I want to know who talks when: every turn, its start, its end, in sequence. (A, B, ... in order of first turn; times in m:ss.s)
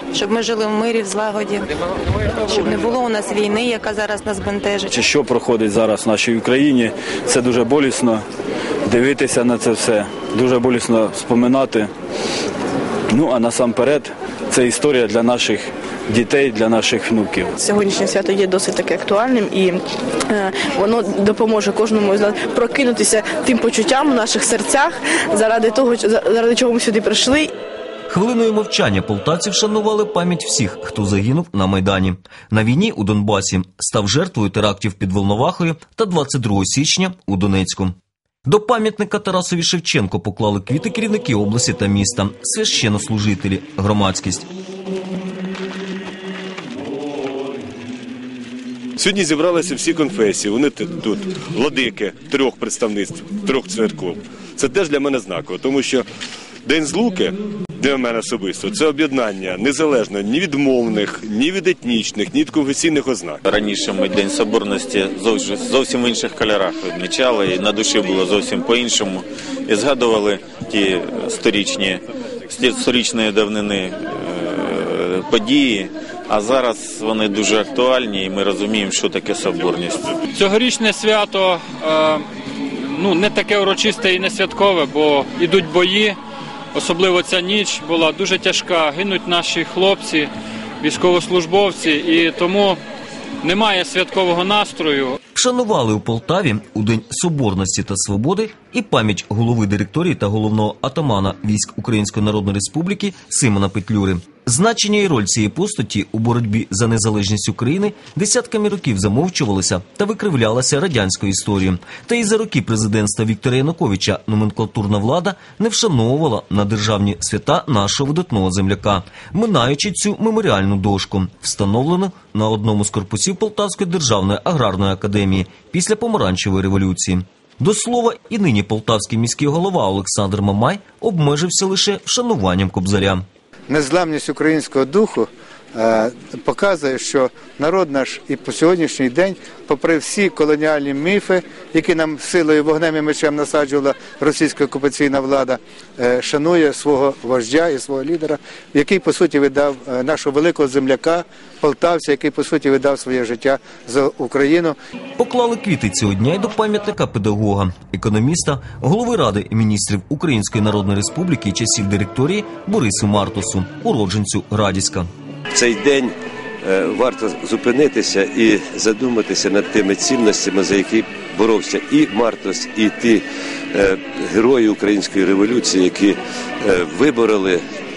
0:00.2-0:00.8 A
0:02.6-0:04.8 A
0:04.9-0:08.2 B
0:08.9-0:11.9 B
0:13.1-0:17.5 B
0:17.6-0:27.5 C
0:28.1-0:44.5 D
0:49.0-0:56.1 E
0:56.6-1:03.4 E
1:03.4-1:20.2 F
1:20.4-1:22.2 G
1:22.9-1:26.1 G
1:26.7-1:30.3 G
1:30.8-1:32.8 G
1:33.4-1:35.1 G
1:35.3-2:13.2 D
2:13.7-2:34.7 H
2:35.2-2:45.1 D
2:45.5-2:57.6 I